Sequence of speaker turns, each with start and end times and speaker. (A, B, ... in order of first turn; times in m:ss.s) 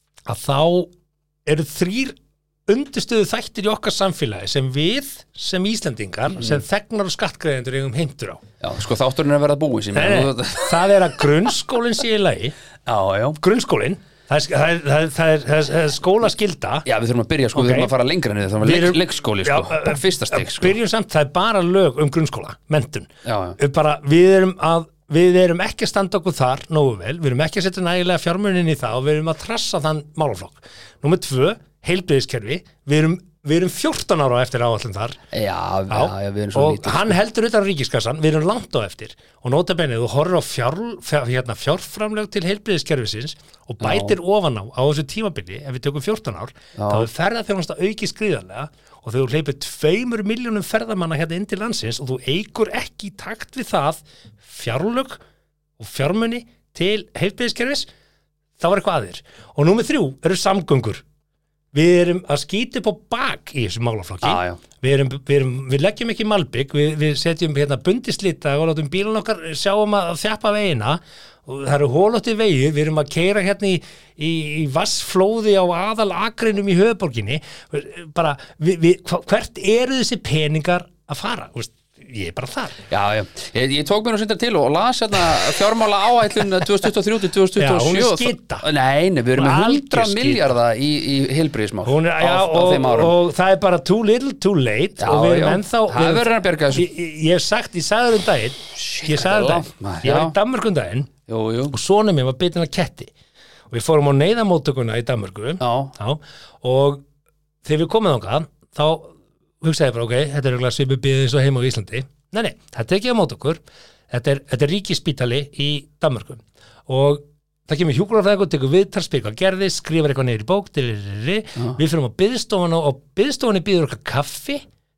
0:00.3-0:00.9 A
0:01.4-0:08.4 A
0:06.4-0:06.6 B
0:08.6-0:10.8 B
0:09.9-0:12.6 A
0:12.9-0:13.4 B
0:13.4-0:16.9 A
0:16.9-0:20.8 B
0:17.6-0:17.9 A
0:18.6-0:35.2 A
0:23.2-0:23.6 B
0:35.3-0:37.2 B
0:35.9-0:55.2 A
0:43.8-0:44.1 B
0:46.8-0:47.1 B
0:55.8-0:57.9 A
0:58.6-1:01.0 A
1:01.7-1:22.8 A
1:04.2-1:04.6 B
1:22.9-1:33.2 B
1:27.6-1:28.7 A
1:29.4-1:30.6 A
1:31.8-1:41.1 A
1:35.0-1:36.9 B
1:38.8-1:40.4 B
1:41.3-1:41.8 B
1:41.7-1:43.1 A
1:43.7-1:47.0 A
1:45.6-1:45.9 B
1:47.6-2:04.6 A